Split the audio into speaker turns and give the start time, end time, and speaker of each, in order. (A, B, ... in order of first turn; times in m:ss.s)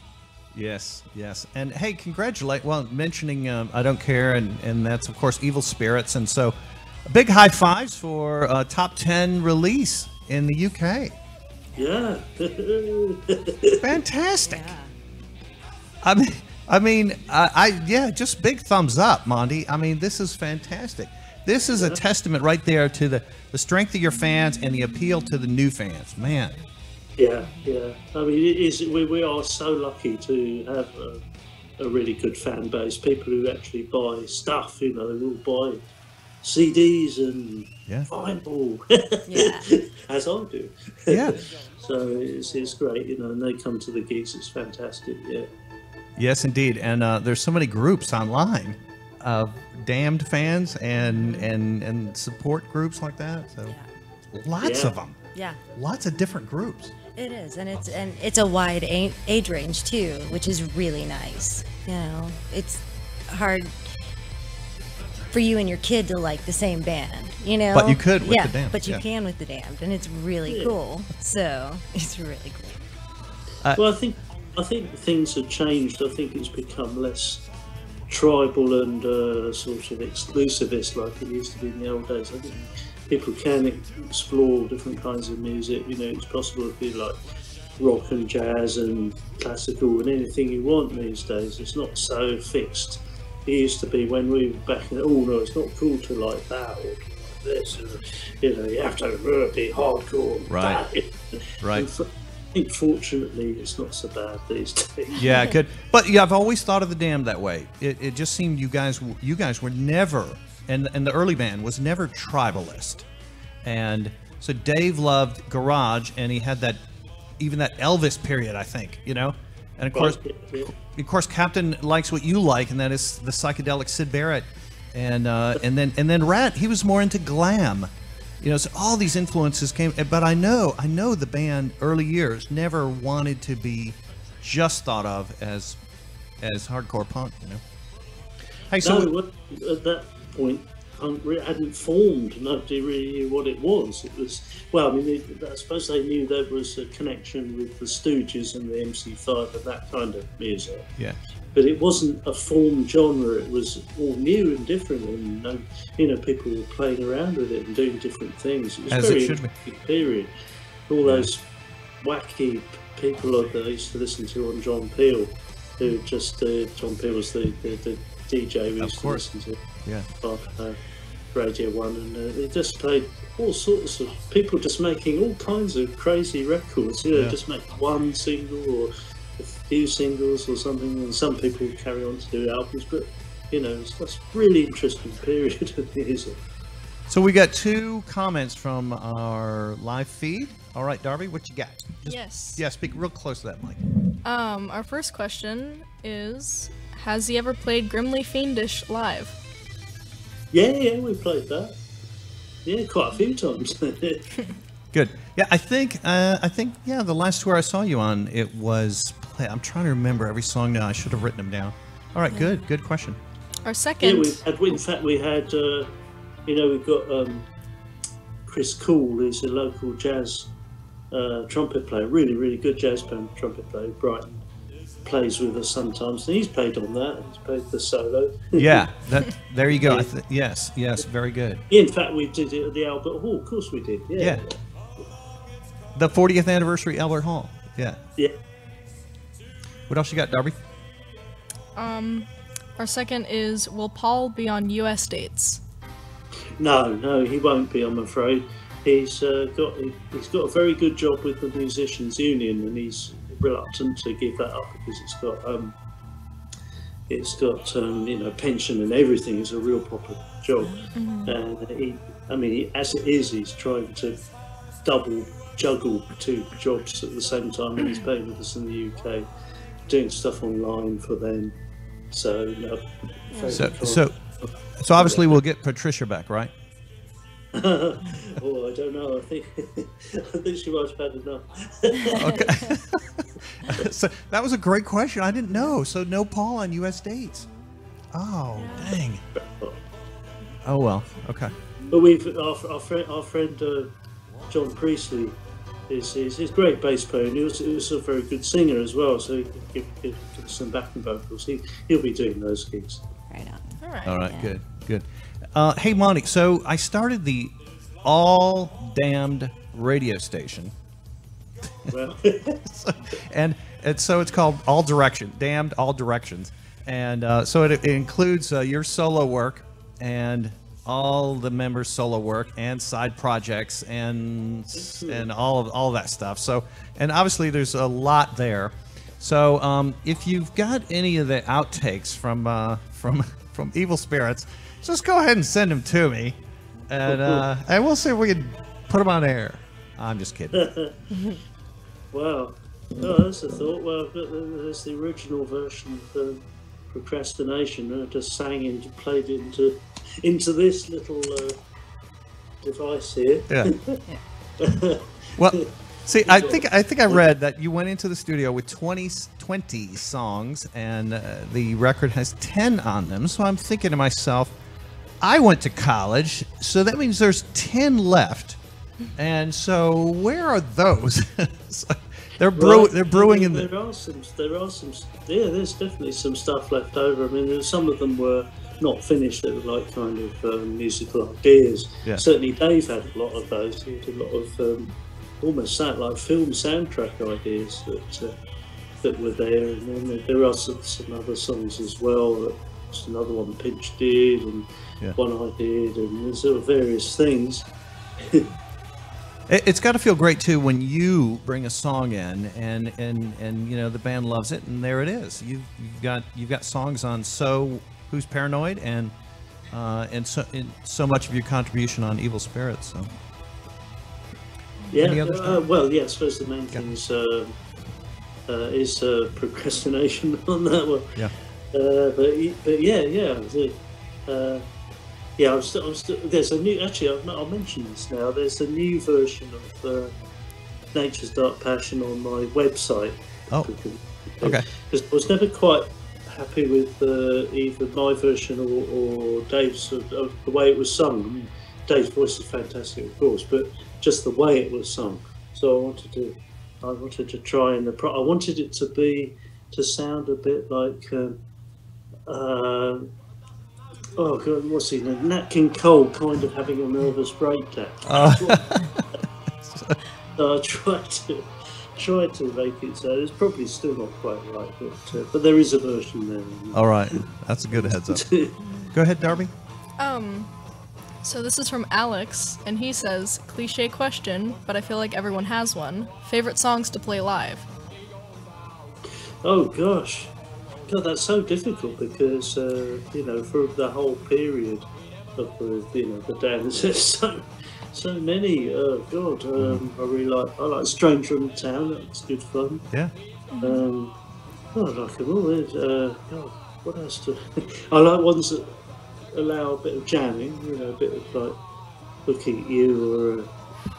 0:00.5-0:06.6 A
0:07.1-0:11.2 A
0:11.8-0:13.8 B
0:13.8-0:14.7 A
0:14.4-0:14.9 C
0:16.0-0:26.6 A
0:27.2-0:31.2 B
0:31.8-0:35.8 B
0:36.4-0:45.5 B
0:39.3-0:39.7 C
0:41.1-0:41.4 A
0:46.2-0:53.8 A
0:51.0-0:51.5 C
0:54.3-0:55.2 A
0:54.6-0:54.9 B
0:55.7-0:56.9 A
0:57.1-1:03.7 C
1:05.3-1:12.8 C
1:07.7-1:09.0 A
1:10.5-1:10.7 B
1:13.8-1:17.4 B
1:18.1-1:27.2 B
1:27.8-1:45.2 B
1:40.5-1:40.8 A
1:41.6-1:41.9 A
1:45.2-1:53.0 A
1:45.2-1:45.5 C
1:53.6-1:56.8 A
1:57.4-2:15.8 A
1:59.9-2:00.7 B
2:16.4-2:17.6 A
2:18.7-2:19.1 A
2:18.8-2:30.9 B
2:31.5-2:40.3 B
2:38.9-2:39.5 A
2:40.9-2:41.4 B
2:42.0-2:49.6 B
2:48.8-2:49.2 A
2:50.2-2:50.8 B
2:51.3-3:06.4 B
3:07.1-3:13.8 A
3:12.0-3:12.6 D
3:14.2-3:19.4 D
3:20.5-3:21.8 B
3:22.6-3:24.3 B
3:24.9-3:33.2 A
3:33.6-3:34.4 D
3:34.0-3:35.9 B
3:36.4-3:37.4 B
3:38.5-3:40.5 B
3:41.1-3:44.4 B
3:45.0-3:48.8 B
3:48.5-3:51.6 A
3:49.8-3:50.1 B
3:51.7-3:54.5 B
3:55.9-3:58.0 A
3:59.9-4:00.6 A
4:01.8-4:05.6 D
4:06.6-4:15.7 B
4:17.1-4:24.2 B
4:20.6-4:20.9 C
4:20.9-4:21.3 D
4:24.8-4:29.2 B
4:29.9-4:31.5 B
4:32.1-4:34.1 B
4:33.5-4:34.2 A
4:34.8-4:36.5 A
4:35.0-4:35.4 B
4:37.5-4:42.3 B
4:42.1-4:42.6 C
4:42.1-4:47.5 A
4:48.1-4:49.2 A
4:48.6-4:49.0 C
4:49.4-4:49.8 B
4:50.6-4:51.5 A
4:51.9-4:53.9 B
4:54.5-4:55.4 B
4:55.9-5:03.0 B
5:03.3-5:04.5 C
5:03.8-5:04.1 D
5:04.0-5:10.7 A
5:11.9-5:12.6 B
5:12.6-5:40.6 A
5:24.7-5:25.2 B
5:37.0-5:37.4 B
5:40.5-5:40.9 B
5:41.1-5:41.4 C
5:42.1-5:51.6 B
5:52.6-5:54.0 B
5:54.6-5:55.7 B
5:55.4-6:04.5 A
5:56.2-5:57.2 B
6:05.2-6:08.6 A
6:09.2-6:13.7 A
6:12.5-6:28.4 B
6:29.0-6:37.7 B
6:38.2-6:38.5 B
6:39.5-6:49.1 A
6:49.7-6:53.1 A
6:54.9-6:55.6 A
6:54.9-6:57.6 B
6:58.5-7:01.2 B
7:01.7-7:03.8 B
7:04.3-7:04.6 B
7:05.4-7:10.1 B
7:10.9-7:31.4 B
7:32.3-7:33.1 B
7:34.2-7:38.8 B
7:38.0-7:39.0 A
7:39.6-7:40.0 A
7:40.4-7:41.4 B
7:42.0-7:48.6 B
7:46.7-7:48.2 A
7:48.9-7:49.5 A
7:50.0-7:50.5 D
7:51.2-7:57.7 D
7:59.4-8:00.3 B
8:00.9-8:04.8 B
8:05.4-8:12.8 B
8:13.5-8:13.8 D
8:13.6-8:14.1 B
8:14.7-8:18.7 B
8:19.3-8:21.6 B
8:22.2-8:23.5 B